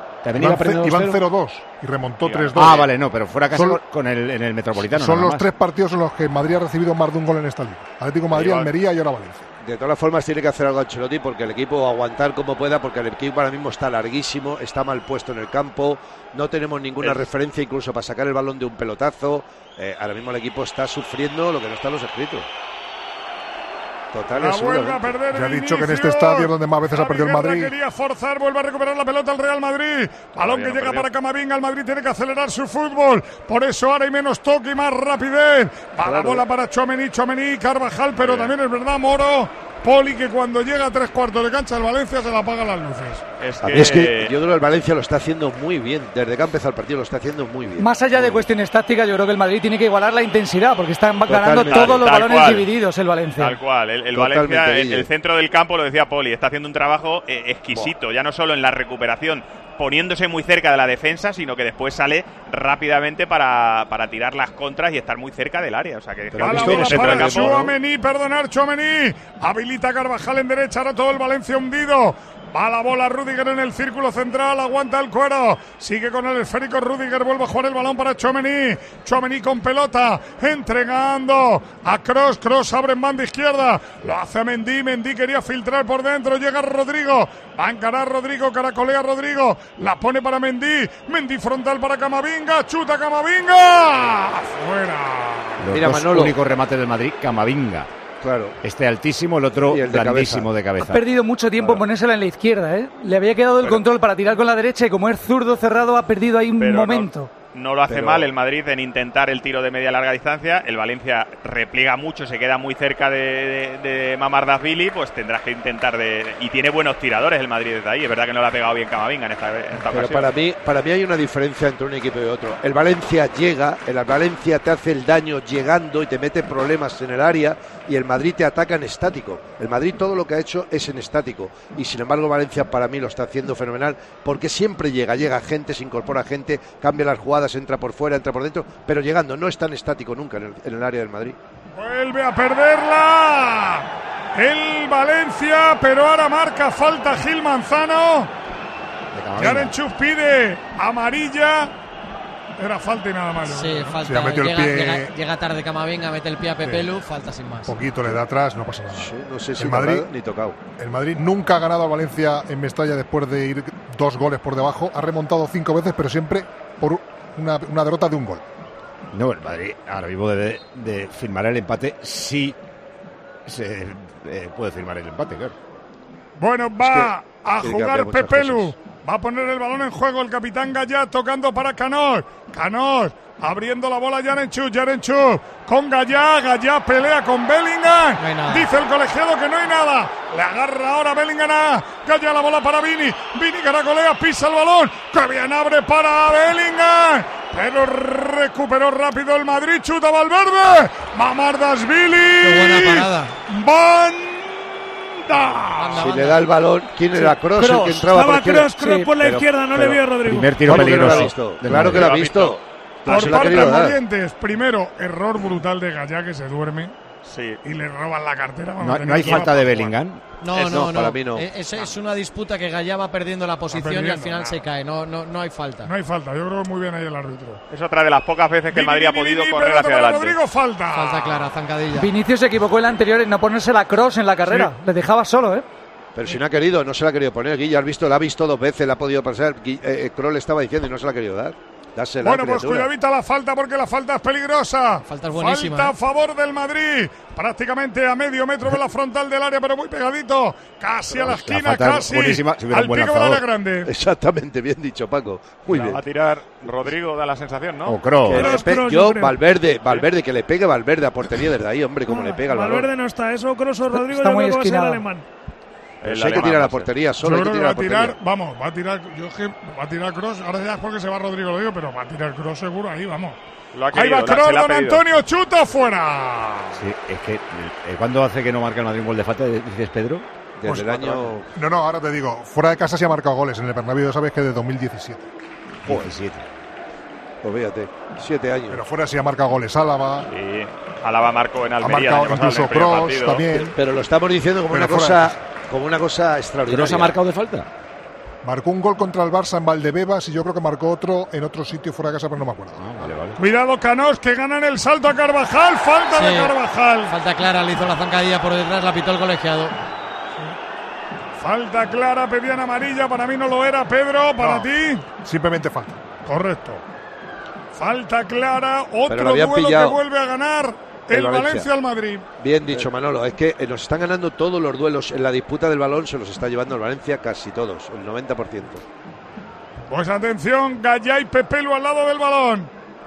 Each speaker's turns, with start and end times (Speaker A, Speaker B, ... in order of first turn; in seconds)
Speaker A: 0.2-1.2, 2.5-5.5, 95.6-97.9, 98.6-101.0, 149.1-149.8, 169.1-172.6, 173.5-175.6, 209.2-212.3, 218.8-220.2, 251.1-253.4, 257.9-258.5, 276.8-280.3, 285.8-286.4, 296.6-297.7, 302.8-303.4
Speaker B: 0.3-2.9, 3.5-3.8, 4.9-9.5, 25.3-27.7, 154.0-155.1, 157.7-160.1, 160.7-168.4, 280.7-285.3, 288.7-290.3, 291.8-293.8, 294.7-295.4, 298.4-303.2, 315.2-316.0
Speaker C: 2.2-2.9, 8.3-8.7, 30.3-31.1, 43.4-44.3, 51.7-52.7, 53.4-67.6, 106.6-120.3, 211.8-212.6, 213.1-213.7, 217.2-217.6, 227.7-230.4, 255.7-258.0, 266.0-266.9, 273.7-275.0, 290.3-293.4
Speaker D: 9.6-22.5, 24.1-25.1, 36.0-36.4, 43.6-48.5, 51.3-52.0, 54.1-55.1, 66.3-67.8, 95.7-96.4, 98.2-98.6, 99.7-100.5, 107.9-108.3, 119.8-141.4, 158.9-160.6, 176.8-178.7, 205.9-208.7, 210.6-214.0, 220.5-221.5, 236.2-242.9, 253.9-256.0, 258.3-262.9, 266.0-268.2, 280.6-281.5, 285.9-286.1, 287.4-288.8, 293.5-297.2, 319.1-320.0, 321.1-321.7, 322.4-328.8
Speaker E: 24.4-43.2, 66.4-95.7, 141.8-148.3, 149.4-151.7, 152.6-153.9, 176.4-204.6, 205.2-206.1, 213.1-216.9, 217.6-219.9, 223.7-224.6, 225.8-227.6, 228.7-231.5, 242.2-253.9, 267.2-273.4, 273.9-276.8, 303.4-307.1, 311.4-315.1, 316.2-316.8, 317.7-322.2, 329.9-332.7
Speaker F: 47.8-53.6, 100.8-107.3, 207.2-208.1, 208.8-209.1, 232.0-235.7, 263.9-265.0
Speaker G: 153.4-157.8, 188.2-188.7, 202.4-203.3, 205.8-206.5, 220.4-225.9, 230.9-232.1, 245.1-245.9, 306.1-306.5, 307.1-309.8
Speaker H: 207.6-211.1, 258.3-259.4, 262.1-265.3